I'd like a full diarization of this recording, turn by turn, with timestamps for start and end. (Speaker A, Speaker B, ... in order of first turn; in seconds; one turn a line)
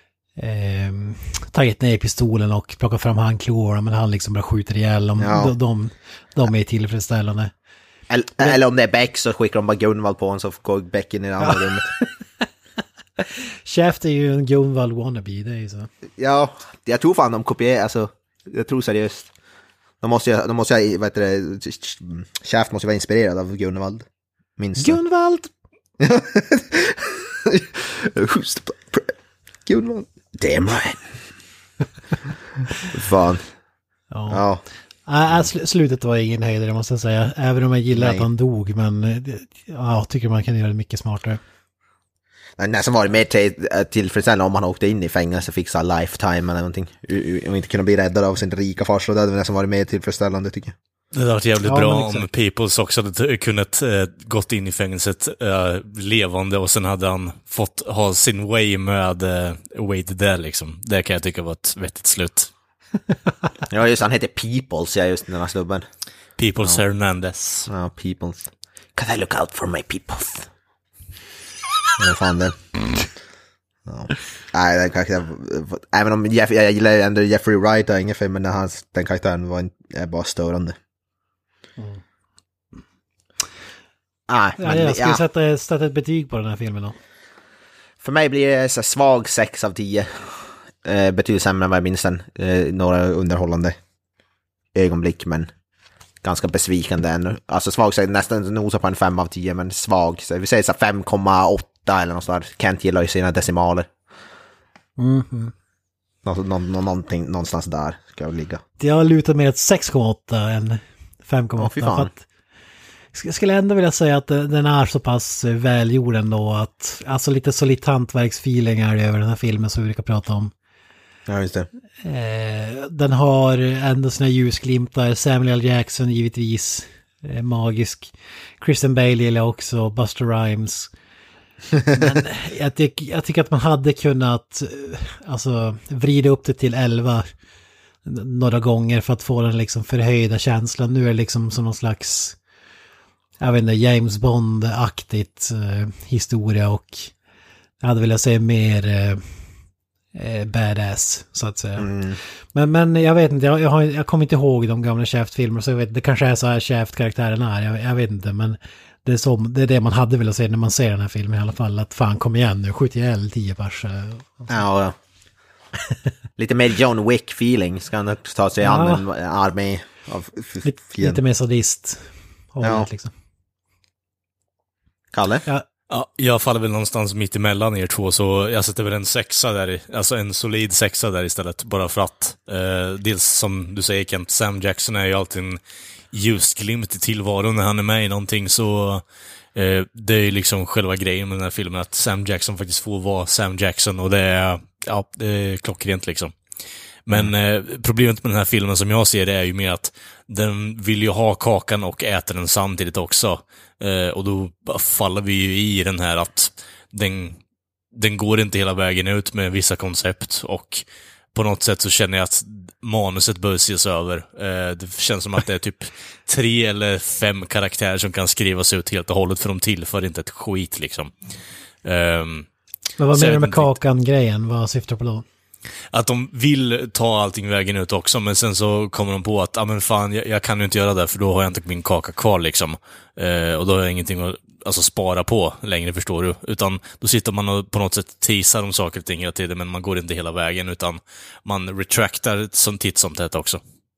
Speaker A: 0.4-7.5
Speaker B: 5.2-5.5
Speaker B: 8.1-11.9
Speaker A: 11.4-12.1
Speaker A: 13.2-15.9
Speaker B: 16.2-19.3
Speaker B: 20.0-24.1
Speaker B: 24.6-25.0
Speaker A: 24.8-25.5
Speaker B: 26.0-29.1
Speaker B: 29.7-31.1
Speaker B: 32.9-33.5
Speaker A: 34.1-34.4
Speaker B: 34.3-34.6
Speaker A: 35.1-41.4
Speaker B: 37.9-38.3
Speaker B: 42.6-50.8
Speaker C: 51.1-62.5
Speaker A: 51.6-52.3
Speaker B: 63.7-65.8
Speaker C: 66.4-67.7
Speaker B: 67.7-70.5
Speaker B: 72.0-72.6
Speaker B: 73.9-80.8
Speaker B: 84.3-85.2
Speaker A: 84.6-87.0
Speaker B: 88.0-93.8
Speaker B: 94.7-95.5
Speaker B: 96.2-103.9
Speaker A: 105.0-105.5
Speaker B: 106.2-108.6
Speaker A: 108.8-112.2
Speaker B: 111.6-112.1
Speaker A: 113.1-120.5
Speaker B: 121.3-121.7
Speaker A: 122.0-130.9
Speaker A: 131.9-137.3
Speaker A: 138.1-142.4
Speaker A: 143.4-147.1
Speaker A: 147.8-149.2
Speaker A: 150.1-151.9
Speaker B: 151.8-152.2
Speaker A: 152.5-164.5
Speaker B: 164.5-164.9
Speaker B: 166.4-171.2
Speaker A: 168.6-169.1
Speaker A: 170.6-173.1
Speaker B: 172.6-172.9
Speaker B: 175.1-175.4
Speaker C: 175.9-185.6
Speaker C: 186.1-189.0
Speaker C: 189.6-196.4
Speaker C: 197.1-207.4
Speaker C: 207.9-221.1
Speaker C: 221.8-222.5
Speaker A: 223.0-225.2
Speaker C: 223.1-223.7
Speaker C: 225.9-243.6